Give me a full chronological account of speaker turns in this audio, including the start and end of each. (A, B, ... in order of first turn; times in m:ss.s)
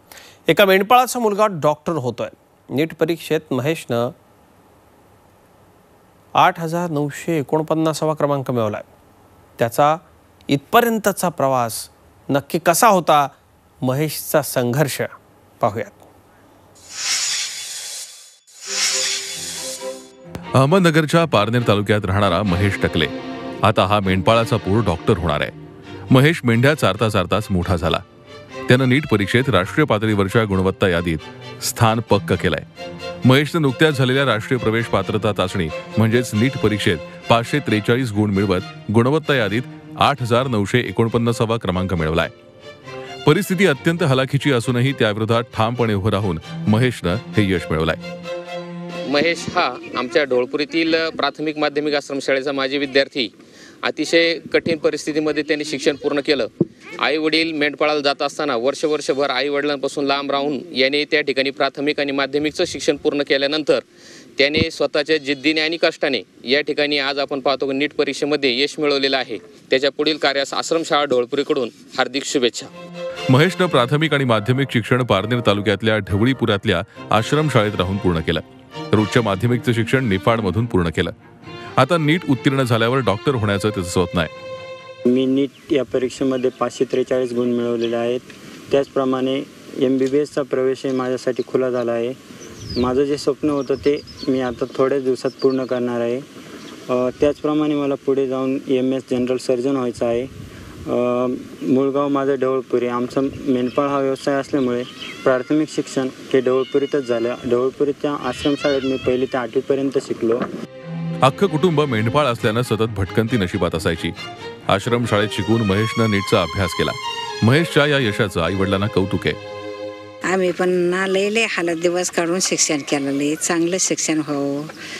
0:00.5-0:04.1 A
0:06.4-0:08.9 A
0:09.6-0:16.0 A
0:20.6-0:23.1 B
0:23.6-0:25.5 B
0:26.1-0:28.0 B
0:28.7-0:32.6 B
0:33.2-0:42.3 B
0:43.2-0:48.0 B
0:49.1-0:53.3 C
0:53.8-0:56.5 C
0:57.0-1:03.8 C
1:04.4-1:12.7 C
1:13.3-1:21.1 B
1:21.8-1:24.3 B
1:25.0-1:32.2 D
1:32.8-1:36.2 D
1:36.9-1:40.3 D
1:40.8-1:50.4 D
1:51.2-1:54.1 B
1:54.7-1:59.4 B
2:00.3-2:04.7 E